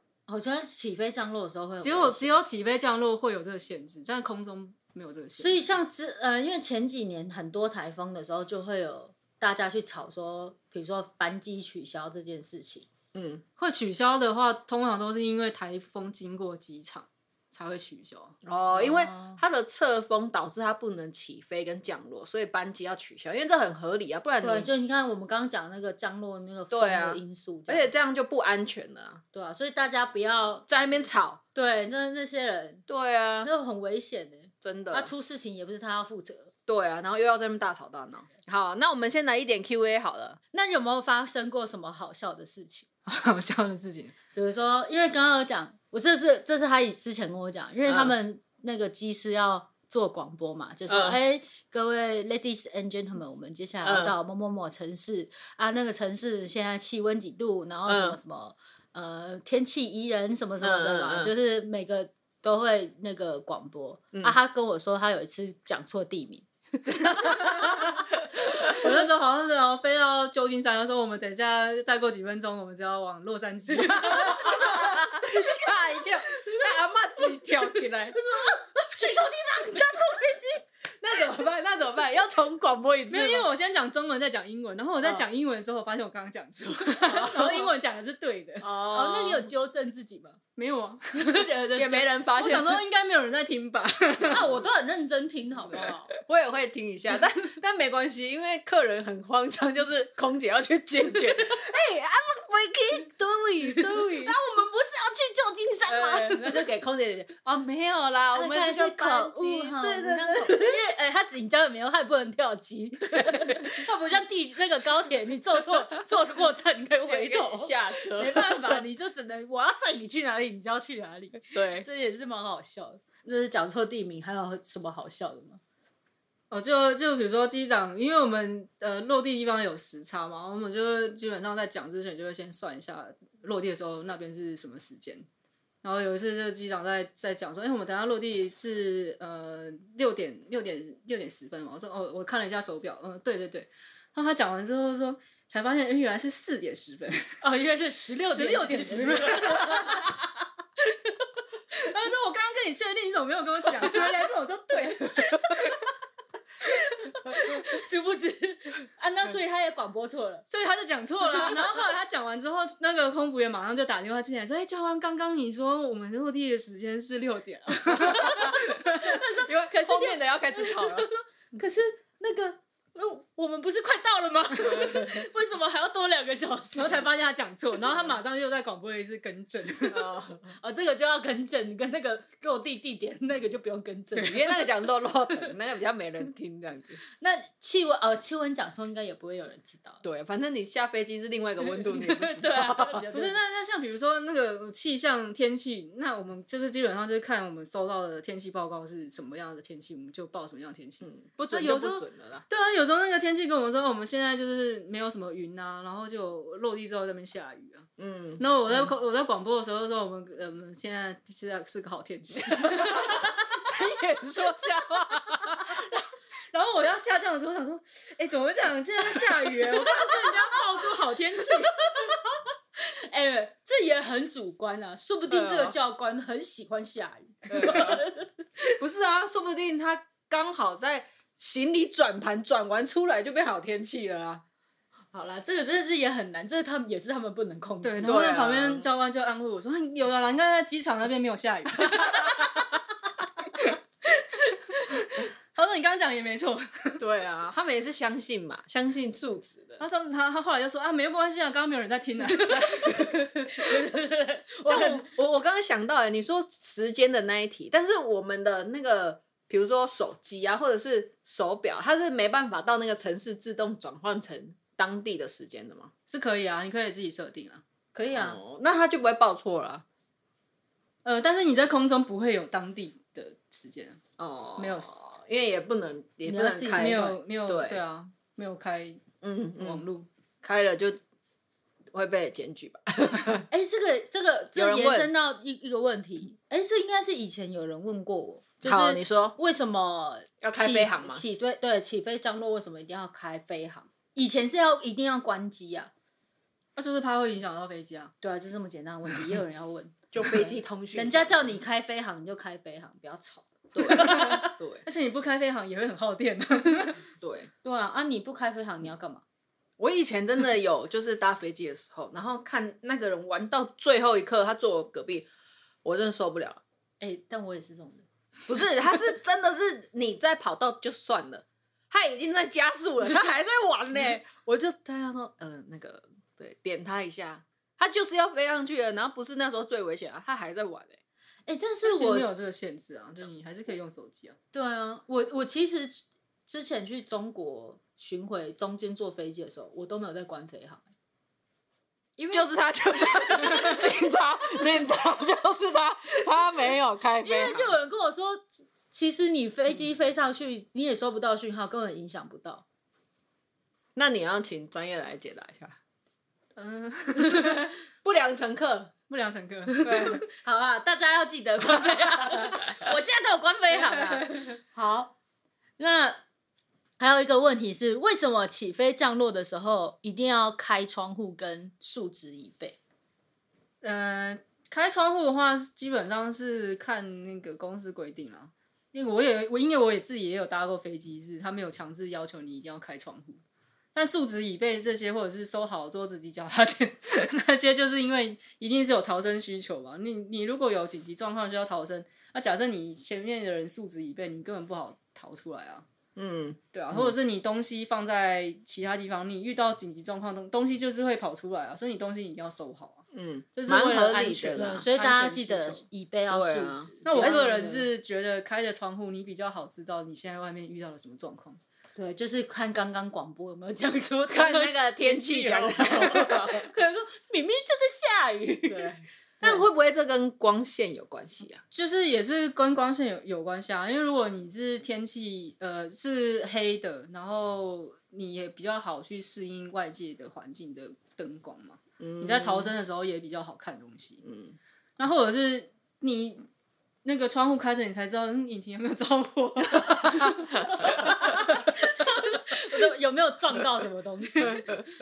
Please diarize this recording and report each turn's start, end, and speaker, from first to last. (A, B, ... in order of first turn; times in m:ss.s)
0:00.3-0:02.4 A
0:01.8-0:05.6 B
0:05.4-0:12.9 A
0:13.1-0:13.4 C
0:13.6-0:18.4 B
0:18.4-0:24.7 C
0:18.7-0:19.4 A
0:24.4-0:27.9 A
0:26.7-0:29.2 C
0:29.3-0:30.7 A
0:30.7-0:31.4 C
0:31.6-0:32.8 A
0:32.9-0:33.5 C
0:33.4-0:36.5 A
0:34.6-0:35.1 C
0:36.7-0:40.4 C
0:40.5-0:42.9 A
0:43.1-0:44.1 B
0:44.4-1:07.7 A
0:47.9-0:48.1 C
0:50.9-0:51.2 C
0:53.8-0:54.2 C
0:57.9-0:58.2 C
1:00.6-1:01.3 C
1:07.0-1:08.8 C
1:08.4-1:14.9 B
1:13.9-1:18.2 C
1:14.0-1:15.0 A
1:18.1-1:20.6 A
1:21.0-1:23.5 C
1:23.1-1:28.7 B
1:27.0-1:27.7 C
1:28.6-1:30.4 A
1:28.6-1:29.5 C
1:30.6-1:31.5 B
1:31.1-1:32.1 A
1:31.8-1:32.8 C
1:32.4-1:34.6 B
1:34.2-1:34.5 C
1:34.3-1:36.1 A
1:35.7-1:44.4 C
1:44.0-1:46.6 A
1:45.9-1:50.8 C
1:48.3-2:05.6 A
1:53.2-1:53.8 C
1:57.1-1:58.8 C
2:01.5-2:01.9 C
2:06.5-2:15.3 B
2:15.8-2:27.4 B
2:27.4-2:30.1 A
2:28.3-2:30.2 B
2:31.7-2:35.8 B
2:36.7-2:40.4 A
2:40.5-2:49.1 B
2:48.0-2:57.1 A
2:49.4-2:51.1 C
2:54.7-2:55.0 C
2:56.7-3:00.1 B
2:59.9-3:00.4 C
3:00.5-3:04.7 A
3:04.1-3:07.0 C
3:07.2-3:10.0 A
3:10.0-3:13.1 C
3:11.9-3:13.4 A
3:13.1-3:27.9 B
3:21.0-3:22.4 C
3:28.0-3:28.9 C
3:28.4-3:33.7 B
3:32.5-3:35.8 C
3:35.3-3:41.9 B
3:41.6-3:48.3 A
3:45.3-3:45.8 C
3:47.5-3:48.1 C
3:48.8-3:54.4 C
3:55.1-3:58.4 A
3:57.8-4:02.6 B
3:58.0-3:58.9 C
4:03.6-4:07.0 B
4:07.0-4:09.8 C
4:09.8-4:13.1 B
4:12.3-4:15.1 A
4:14.7-4:25.9 C
4:26.1-4:27.6 B
4:27.9-4:28.4 A
4:28.1-4:29.8 C
4:31.0-4:34.0 B
4:34.2-4:37.8 C
4:34.6-4:35.0 B
4:36.3-4:37.2 A
4:36.8-4:39.0 B
4:39.2-4:39.8 C
4:39.6-4:40.1 B
4:40.4-4:41.0 C
4:41.9-4:43.5 C
4:43.5-4:55.9 A
4:44.6-4:45.1 C
4:48.6-4:49.4 C
4:50.4-4:51.2 C
4:56.8-4:58.1 B
4:58.2-5:04.6 A
5:00.1-5:01.6 C
5:03.8-5:04.8 C
5:04.8-5:07.0 B
5:07.2-5:07.5 C
5:07.6-5:09.2 A
5:09.8-5:15.3 C
5:15.8-5:16.6 C
5:17.0-5:18.1 A
5:18.5-5:31.0 C
5:31.5-5:32.3 A
5:31.8-5:34.4 B
5:34.5-5:40.9 A
5:42.2-5:42.5 B
5:42.3-5:47.8 C
5:43.1-5:43.9 B
5:47.2-5:52.6 A
5:54.0-5:55.8 C
5:56.6-5:57.8 B
5:57.3-5:57.6 A
5:58.0-5:58.9 C
5:59.1-6:00.2 B
5:59.8-6:00.2 C
5:59.8-6:05.1 A
6:05.8-6:06.2 A
6:07.0-6:12.8 A
6:13.8-6:23.4 B
6:24.0-6:35.8 B
6:36.2-6:37.1 C
6:36.7-6:43.0 B
6:43.1-6:44.9 C
6:43.6-6:45.8 B
6:44.2-6:47.8 A
6:46.3-6:47.9 C
6:47.0-6:51.6 B
6:52.0-6:59.7 A
6:54.3-6:56.7 C
6:58.7-7:01.6 C
7:01.7-7:14.2 B
7:12.0-7:12.7 C
7:14.2-7:14.6 C
7:15.0-7:16.4 B
7:17.0-7:21.6 B
7:20.5-7:24.8 A
7:24.5-7:24.8 C